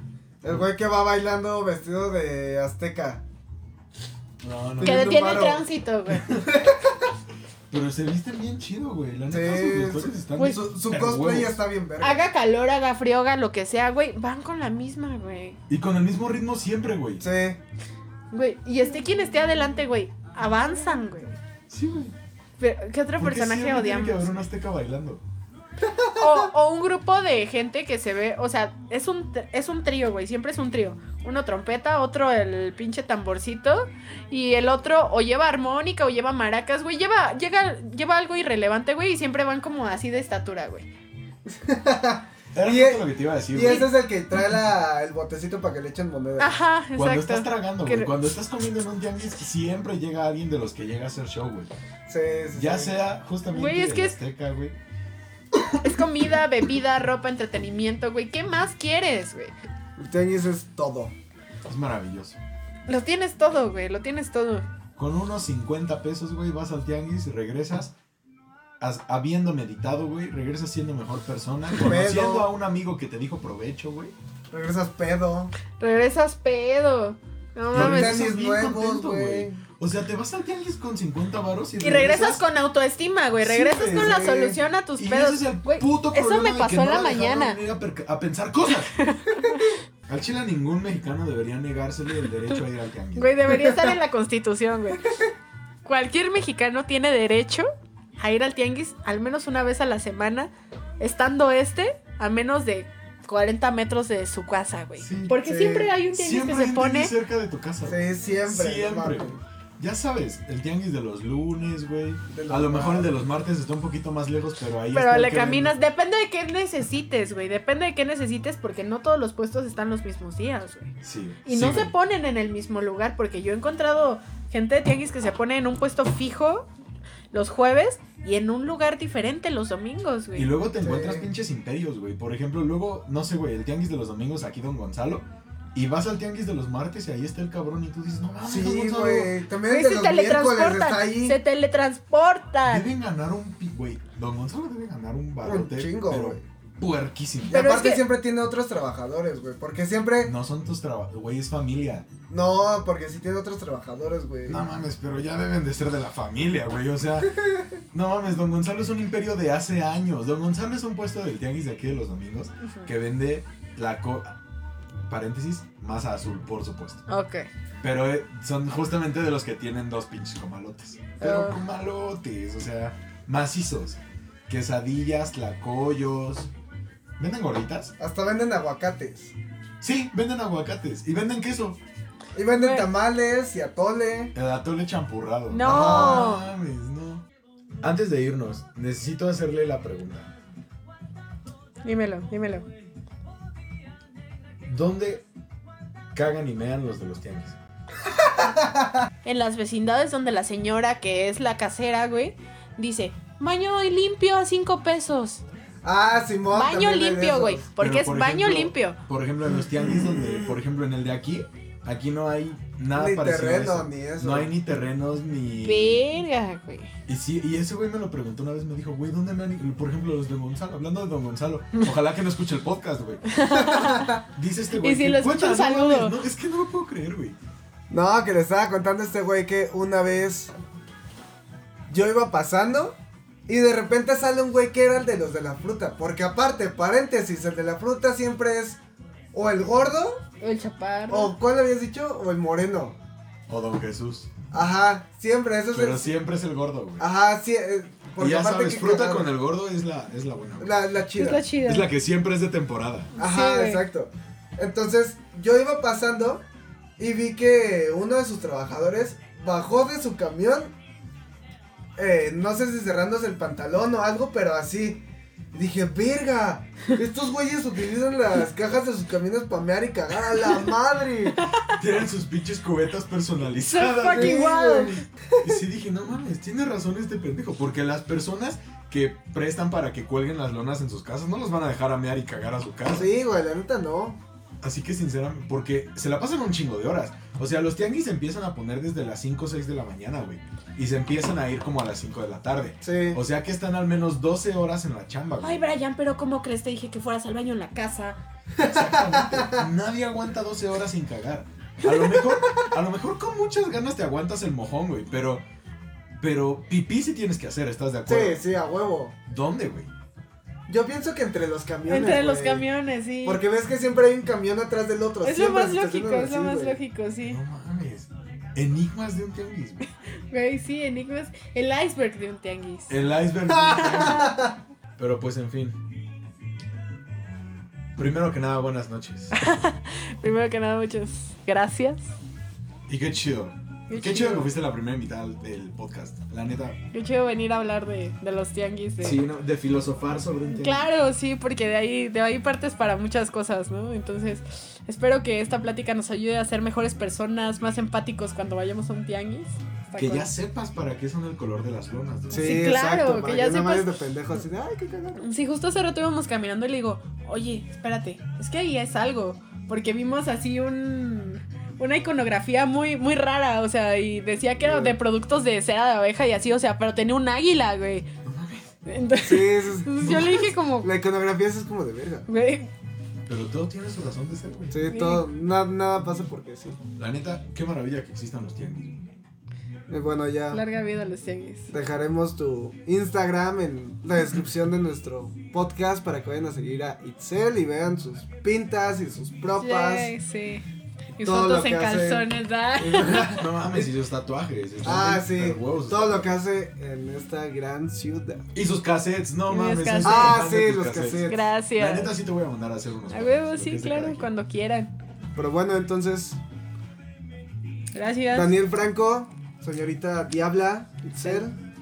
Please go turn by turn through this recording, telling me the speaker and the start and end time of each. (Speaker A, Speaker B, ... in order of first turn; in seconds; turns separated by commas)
Speaker A: 0.4-3.2, Speaker B: 4.4-5.2, Speaker A: 4.8-5.6, Speaker C: 4.8-6.4, Speaker A: 6.3-7.1, Speaker B: 7.7-11.6, Speaker A: 9.3-12.2, Speaker C: 12.0-15.6, Speaker B: 15.7-17.2, Speaker A: 17.2-17.6, Speaker C: 18.3-21.4, Speaker B: 21.7-22.1, Speaker C: 22.6-24.3, Speaker B: 23.2-25.2, Speaker A: 25.8-26.5, Speaker C: 26.2-40.9, Speaker A: 41.5-46.6, Speaker B: 42.5-43.9, Speaker C: 46.4-48.1, Speaker B: 47.0-51.7, Speaker A: 52.1-53.0, Speaker B: 52.5-54.7, Speaker C: 53.5-54.1, Speaker C: 55.8-59.5, Speaker A: 60.0-61.1, Speaker B: 61.7-62.4, Speaker C: 62.9-64.7, Speaker B: 65.0-67.9, Speaker B: 68.8-74.1, Speaker A: 71.8-72.5, Speaker A: 74.5-75.5, Speaker C: 75.8-78.3, Speaker A: 77.7-79.6, Speaker B: 77.7-82.4, Speaker C: 81.8-87.6, Speaker B: 83.4-84.4, Speaker A: 84.0-84.6, Speaker B: 85.0-89.0, Speaker C: 88.8-89.8, Speaker B: 90.1-93.5, Speaker C: 93.2-95.2, Speaker C: 95.8-107.1, Speaker B: 105.0-105.4, Speaker A: 105.4-105.9, Speaker B: 106.1-115.7, Speaker A: 107.8-109.4, Speaker A: 112.3-113.2, Speaker C: 114.9-120.9, Speaker B: 121.0-121.9, Speaker C: 121.5-126.7, Speaker C: 127.3-130.5, Speaker B: 130.3-139.3, Speaker A: 130.8-131.2, Speaker A: 138.4-141.4, Speaker C: 139.7-142.9, Speaker B: 142.7-147.7, Speaker A: 145.4-146.4, Speaker A: 147.5-150.3, Speaker C: 147.5-148.0, Speaker B: 150.2-152.1, Speaker A: 152.3-154.7, Speaker B: 154.5-157.4, Speaker B: 157.9-164.4, Speaker C: 162.6-162.9, Speaker B: 165.1-167.0, Speaker C: 167.1-167.5, Speaker B: 167.8-176.5, Speaker C: 171.2-171.6, Speaker B: 177.2-177.9, Speaker A: 178.0-179.3, Speaker B: 179.8-181.8, Speaker A: 182.3-184.3, Speaker C: 182.5-182.9, Speaker B: 184.3-187.2, Speaker C: 185.5-186.5, Speaker A: 185.6-186.4, Speaker B: 187.8-190.3, Speaker C: 191.8-192.6, Speaker B: 194.6-195.2, Speaker B: 196.1-197.6, Speaker A: 198.1-199.1, Speaker C: 199.2-205.4, Speaker A: 205.8-207.6, Speaker C: 206.5-209.0, Speaker B: 207.8-216.1, Speaker A: 210.0-210.5, Speaker A: 212.9-214.5, Speaker C: 215.6-216.9, Speaker B: 217.1-223.3, Speaker C: 223.3-224.2, Speaker A: 223.5-224.2, Speaker B: 224.3-227.3, Speaker C: 224.8-226.2, Speaker A: 227.9-230.5, Speaker A: 231.9-232.9, Speaker A: 233.5-238.8, Speaker A: 239.3-240.2, Speaker C: 240.4-241.3, Speaker A: 241.1-242.9, Speaker B: 243.5-244.3, Speaker A: 244.5-246.1, Speaker B: 245.7-247.1, Speaker A: 247.0-249.3, Speaker B: 248.2-250.8, Speaker A: 250.6-251.5, Speaker C: 251.2-251.9, Speaker B: 251.6-253.1, Speaker C: 253.1-253.8, Speaker A: 253.2-256.4, Speaker A: 257.0-260.7, Speaker A: 262.0-271.4, Speaker B: 271.7-274.6, Speaker C: 273.7-275.0, Speaker A: 274.1-275.6, Speaker B: 275.4-283.1, Speaker A: 282.9-284.2, Speaker B: 284.6-295.6, Speaker A: 292.8-293.2, Speaker C: 295.4-298.2, Speaker A: 298.6-299.7, Speaker B: 298.6-305.4, Speaker C: 301.9-302.2, Speaker B: 306.2-308.4, Speaker A: 308.1-309.1, Speaker B: 309.2-309.9, Speaker A: 310.7-312.6, Speaker C: 311.9-313.4, Speaker A: 313.2-316.8, Speaker C: 315.2-317.4, Speaker B: 317.2-319.8, Speaker C: 320.3-322.9, Speaker B: 322.9-324.4, Speaker A: 323.6-324.5, Speaker C: 323.8-324.4, Speaker B: 325.0-325.8, Speaker B: 327.9-329.4, Speaker C: 329.3-332.1, Speaker B: 332.9-336.8, Speaker C: 333.9-334.5, Speaker C: 336.9-339.2, Speaker B: 339.0-340.8, Speaker C: 340.5-350.3, Speaker B: 350.0-352.7, Speaker C: 352.3-353.9, Speaker A: 352.3-355.2, Speaker C: 355.2-368.1, Speaker A: 364.6-364.9, Speaker B: 368.2-368.7, Speaker C: 368.9-370.9, Speaker A: 369.2-372.3, Speaker B: 370.0-370.3, Speaker C: 372.3-372.7, Speaker B: 373.3-374.9, Speaker A: 374.7-376.8, Speaker C: 374.9-375.2, Speaker B: 376.9-379.1, Speaker A: 379.9-380.6, Speaker C: 380.5-381.7, Speaker A: 381.7-390.1, Speaker C: 389.6-390.6, Speaker C: 391.2-393.4, Speaker A: 391.2-392.3, Speaker A: 392.8-393.9, Speaker B: 392.9-396.4, Speaker A: 394.8-398.4, Speaker B: 398.5-404.3, Speaker C: 399.5-400.4, Speaker A: 400.0-401.4, Speaker C: 401.3-402.1, Speaker C: 403.1-404.9, Speaker A: 405.3-406.4, Speaker C: 407.9-408.5, Speaker A: 408.3-411.6